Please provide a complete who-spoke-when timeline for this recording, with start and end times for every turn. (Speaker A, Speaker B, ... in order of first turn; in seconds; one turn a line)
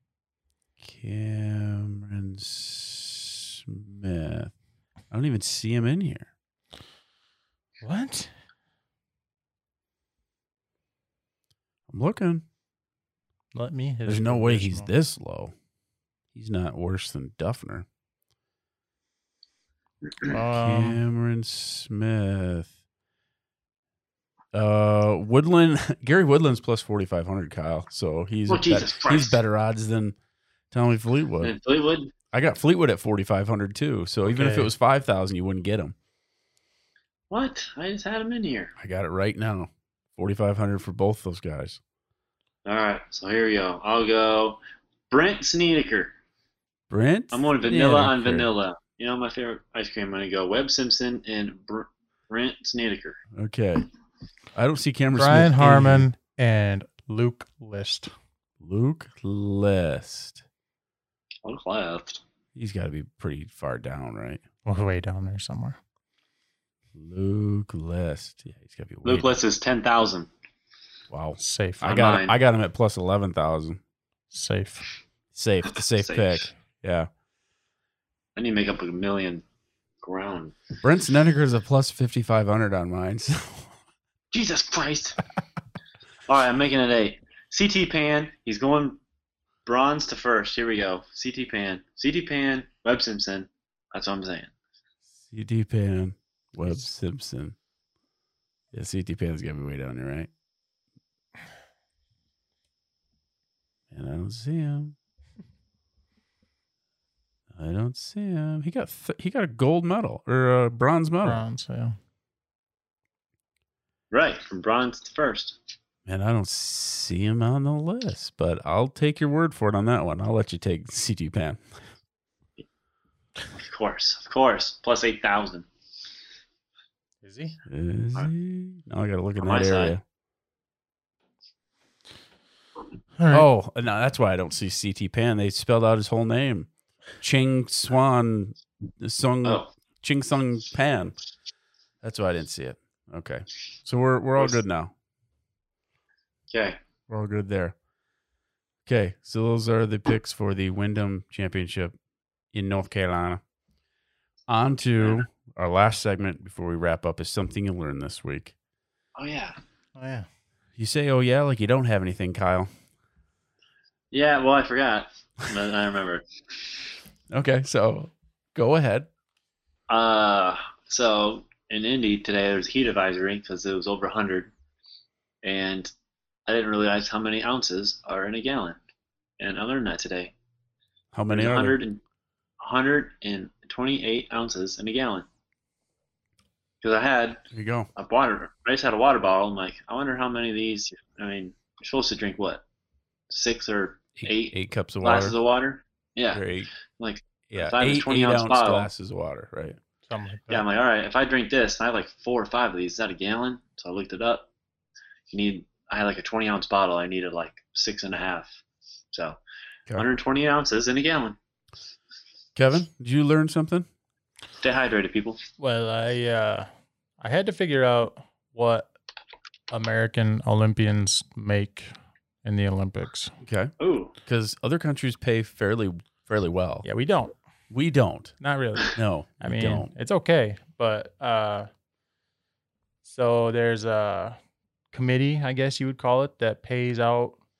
Speaker A: 0.8-4.5
Speaker A: 5.1-6.3
Speaker B: 7.8-8.3
Speaker A: 11.9-12.4
Speaker B: 13.6-14.9
Speaker A: 14.1-15.5
Speaker A: 16.3-17.9
Speaker B: 20.2-21.0
Speaker A: 20.5-22.7
Speaker A: 24.5-30.1
Speaker C: 28.5-29.4
Speaker A: 30.7-31.6
Speaker C: 31.4-32.1
Speaker A: 32.3-36.0
Speaker B: 34.3-34.7
Speaker C: 37.3-38.7
Speaker A: 38.8-41.8
Speaker C: 42.6-46.1
Speaker A: 46.9-48.5
Speaker C: 47.3-53.2
Speaker A: 53.3-53.9
Speaker A: 54.5-56.1
Speaker B: 55.2-58.1
Speaker A: 58.6-60.4
Speaker C: 61.5-62.2
Speaker A: 62.6-64.4
Speaker B: 64.7-65.8
Speaker A: 67.0-69.3
Speaker C: 69.0-70.3
Speaker A: 71.1-73.8
Speaker B: 71.4-72.0
Speaker C: 71.8-72.4
Speaker B: 74.3-74.9
Speaker A: 75.3-77.1
Speaker C: 76.0-76.5
Speaker C: 78.4-79.4
Speaker C: 80.0-80.6
Speaker A: 80.8-83.7
Speaker C: 84.3-85.2
Speaker C: 86.3-89.0
Speaker C: 89.7-94.5
Speaker A: 95.2-97.6
Speaker A: 98.7-100.3
Speaker A: 103.9-105.0
Speaker A: 107.5-111.4
Speaker B: 111.2-112.0
Speaker C: 114.1-115.6
Speaker A: 116.1-121.6
Speaker C: 123.5-125.7
Speaker B: 127.2-127.6
Speaker A: 127.7-130.0
Speaker C: 129.4-130.0
Speaker B: 133.2-133.5
Speaker A: 133.3-136.7
Speaker A: 137.2-141.2
Speaker A: 142.0-144.9
Speaker C: 146.5-146.8
Speaker A: 147.1-147.8
Speaker A: 148.9-151.9
Speaker A: 152.5-153.4
Speaker A: 154.5-158.6
Speaker C: 159.2-159.6
Speaker B: 160.0-160.3
Speaker A: 160.8-162.7
Speaker C: 164.1-166.2
Speaker A: 167.3-169.1
Speaker C: 169.9-174.5
Speaker C: 175.4-175.9
Speaker C: 176.5-178.8
Speaker C: 179.4-180.3
Speaker A: 181.1-181.8
Speaker C: 181.3-182.0
Speaker C: 182.6-185.2
Speaker C: 186.8-187.4
Speaker A: 187.5-187.9
Speaker C: 188.0-192.6
Speaker C: 193.3-196.4
Speaker A: 194.2-195.3
Speaker A: 196.3-196.7
Speaker C: 197.0-198.9
Speaker A: 197.5-199.8
Speaker B: 200.1-200.7
Speaker C: 200.5-204.5
Speaker C: 205.3-208.5
Speaker C: 209.1-209.4
Speaker C: 209.9-211.4
Speaker A: 212.6-213.9
Speaker C: 214.6-215.4
Speaker B: 215.6-216.7
Speaker B: 217.2-218.9
Speaker B: 219.7-221.9
Speaker B: 222.4-223.3
Speaker A: 223.4-223.7
Speaker C: 223.8-224.1
Speaker A: 224.2-226.8
Speaker B: 226.8-227.4
Speaker A: 227.7-228.3
Speaker B: 228.4-231.7
Speaker A: 228.9-229.9
Speaker B: 233.1-234.4
Speaker B: 234.9-237.4